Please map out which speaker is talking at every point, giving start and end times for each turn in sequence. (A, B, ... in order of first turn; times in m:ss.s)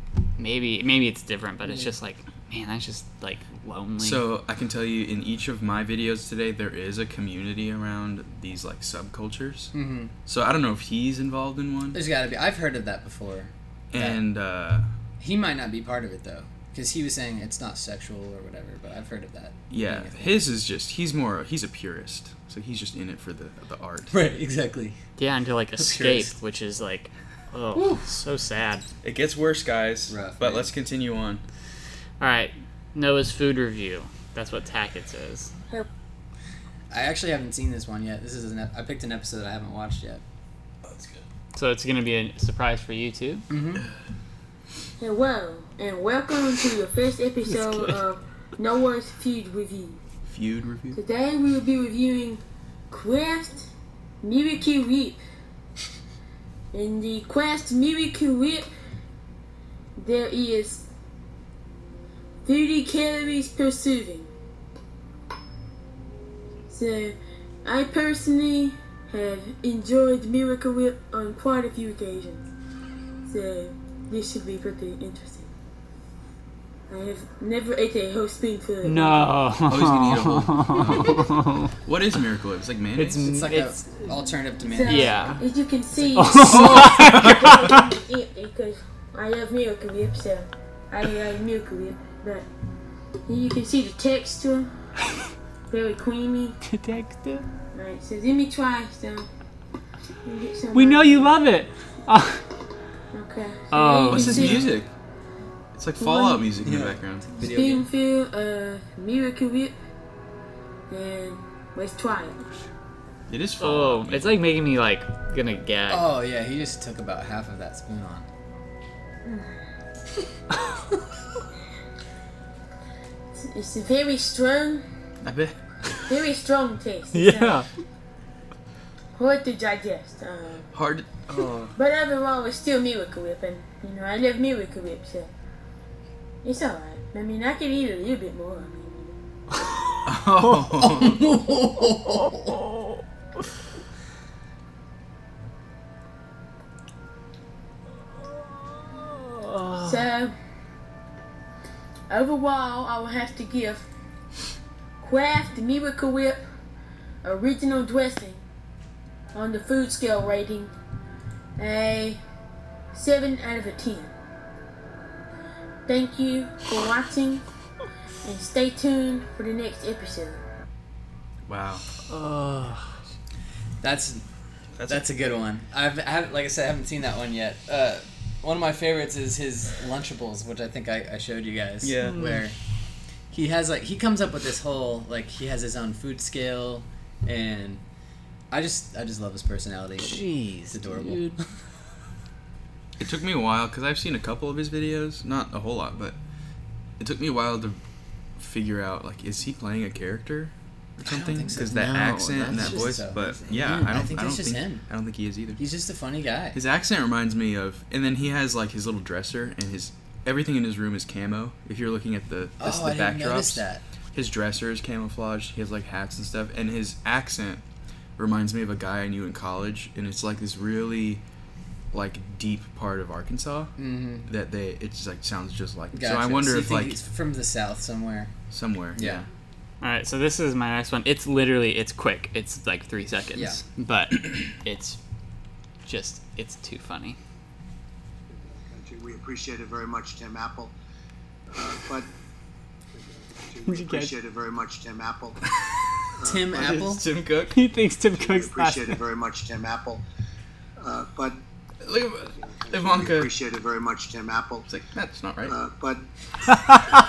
0:00.4-0:04.2 A
0:01.6-0:01.9 B
0:04.0-0:12.0 C
0:09.7-0:10.1 B
0:11.9-0:14.2 B
0:13.9-0:14.9 C
0:15.2-0:20.4 B
0:19.7-0:24.1 C
0:24.1-0:25.0 B
0:25.2-0:28.8 A
0:25.8-0:26.4 B
0:27.7-0:28.1 B
0:29.0-0:31.4 C
0:30.1-0:30.7 B
0:32.2-0:35.5 A
0:36.9-0:40.2 B
0:41.5-0:43.4 A
0:43.5-0:43.8 B
0:45.0-0:50.0 D
0:47.4-0:48.0 A
0:50.2-0:51.0 C
0:50.9-0:53.7 D
0:54.2-0:55.2 D
0:56.7-0:58.7 D
1:00.0-1:00.8 D
1:02.4-1:04.3 D
1:06.7-1:12.5 D
1:13.2-1:15.5 D
1:16.9-1:19.3 D
1:18.8-1:21.7 A
1:19.7-1:21.2 C
1:21.8-1:23.2 C
1:23.0-1:24.2 A
1:23.2-1:25.4 B
1:24.7-1:32.5 D
1:24.8-1:25.4 A
1:26.1-1:27.8 A
1:26.4-1:27.5 C
1:33.3-1:34.7 D
1:35.7-1:36.6 D
1:36.6-1:37.4 A
1:37.7-1:39.3 D
1:40.2-1:41.4 D
1:40.7-1:42.4 A
1:43.1-1:44.7 D
1:43.7-1:44.6 A
1:44.0-1:44.9 C
1:45.8-1:47.3 C
1:46.0-1:46.5 D
1:46.6-1:47.9 B
1:47.4-1:49.7 D
1:50.9-1:52.4 D
1:53.3-1:54.4 C
1:53.6-1:56.1 A
1:55.9-1:58.3 B
1:59.2-1:59.6 D
2:03.4-2:04.9 D
2:05.2-2:05.9 C
2:06.1-2:07.6 D
2:07.1-2:07.6 A
2:09.1-2:10.7 D
2:10.7-2:11.7 C
2:11.7-2:15.3 D
2:16.4-2:19.2 D
2:20.0-2:21.2 C
2:20.6-2:22.6 B
2:29.3-2:30.0 A
2:29.8-2:30.3 D
2:32.1-2:33.8 D
2:35.0-2:36.4 D
2:37.2-2:38.4 D
2:39.3-2:40.7 D
2:41.6-2:42.2 D
2:42.9-2:44.1 D
2:45.8-2:47.4 D
2:48.2-2:50.4 D
2:51.4-2:51.9 C
2:52.1-2:52.9 A
2:53.8-2:54.2 B
2:54.8-2:55.0 C
2:54.9-3:02.6 B
3:01.8-3:02.2 C
3:02.0-3:02.5 A
3:03.3-3:07.8 B
3:08.5-3:11.5 B
3:10.0-3:11.4 A
3:13.0-3:16.2 C
3:17.0-3:17.8 C
3:18.4-3:25.6 C
3:21.0-3:24.9 B
3:21.7-3:22.9 A
3:25.6-3:26.6 B
3:26.5-3:37.6 C
3:32.6-3:33.8 B
3:38.2-3:41.2 C
3:41.9-3:47.0 C
3:43.8-3:44.3 B
3:45.9-3:48.3 B
3:48.5-3:49.2 C
3:48.9-3:49.3 B
3:49.8-3:55.0 A
3:53.3-3:53.6 B
3:55.8-3:57.2 A
3:58.3-4:00.7 E
4:01.5-4:02.1 E
4:02.9-4:05.4 E
4:03.6-4:04.1 A
4:06.2-4:06.8 E
4:06.2-4:07.0 B
4:06.6-4:07.6 C
4:07.5-4:09.0 A
4:08.1-4:10.0 E
4:10.8-4:11.4 E
4:11.8-4:13.3 C
4:12.3-4:14.8 E
4:14.7-4:15.5 C
4:15.5-4:16.0 E